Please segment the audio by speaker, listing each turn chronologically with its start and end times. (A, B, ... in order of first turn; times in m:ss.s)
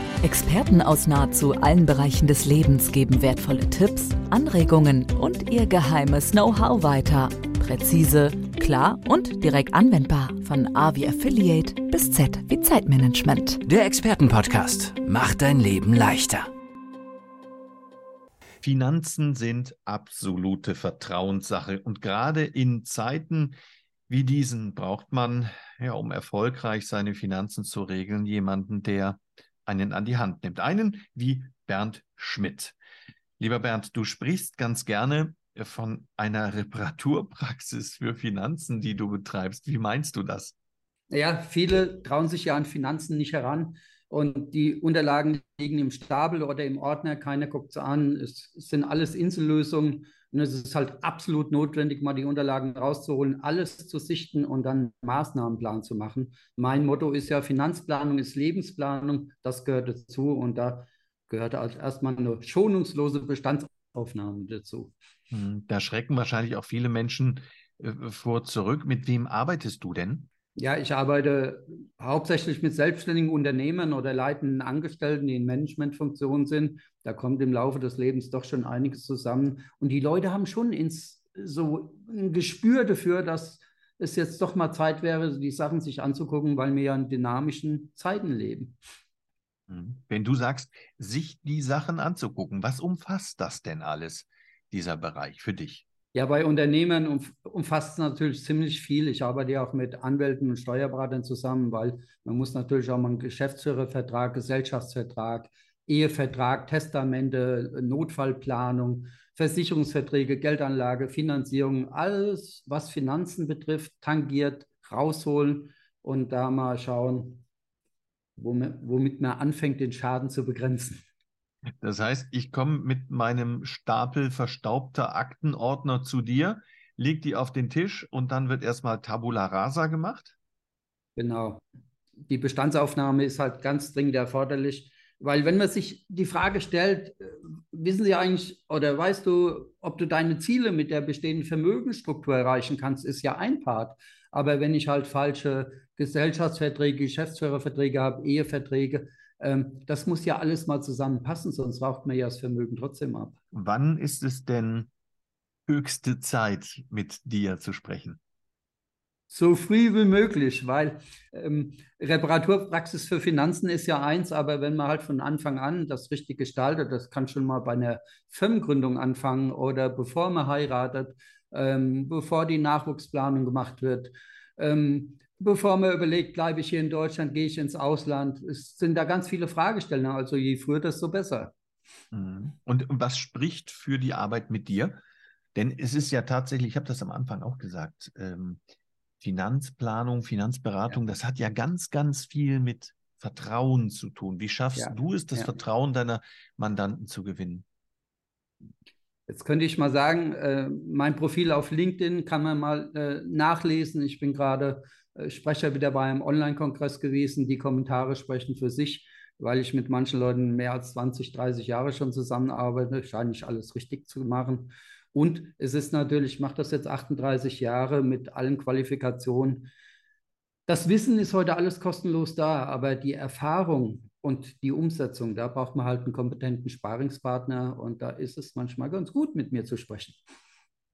0:00.2-0:13.6 A
0:13.6-0:16.5 B
0:18.6-0:23.6 C
0:24.1-0:32.8 C
0:33.4-0:40.5 C
0:41.1-1:04.9 D
1:05.3-1:10.3 C
1:10.5-1:28.8 D
1:29.7-1:35.8 C
1:36.1-1:57.4 D
1:58.4-2:01.0 D
2:01.8-2:10.3 C
2:11.2-2:11.6 D
2:12.2-2:33.4 D
2:33.5-2:34.9 C
2:35.7-2:38.2 C
2:39.3-3:01.5 D
3:02.1-3:05.0 C
3:05.5-3:08.6 C
3:09.2-3:17.6 C
3:14.8-3:15.6 D
3:19.3-3:39.7 D
3:40.7-3:50.2 D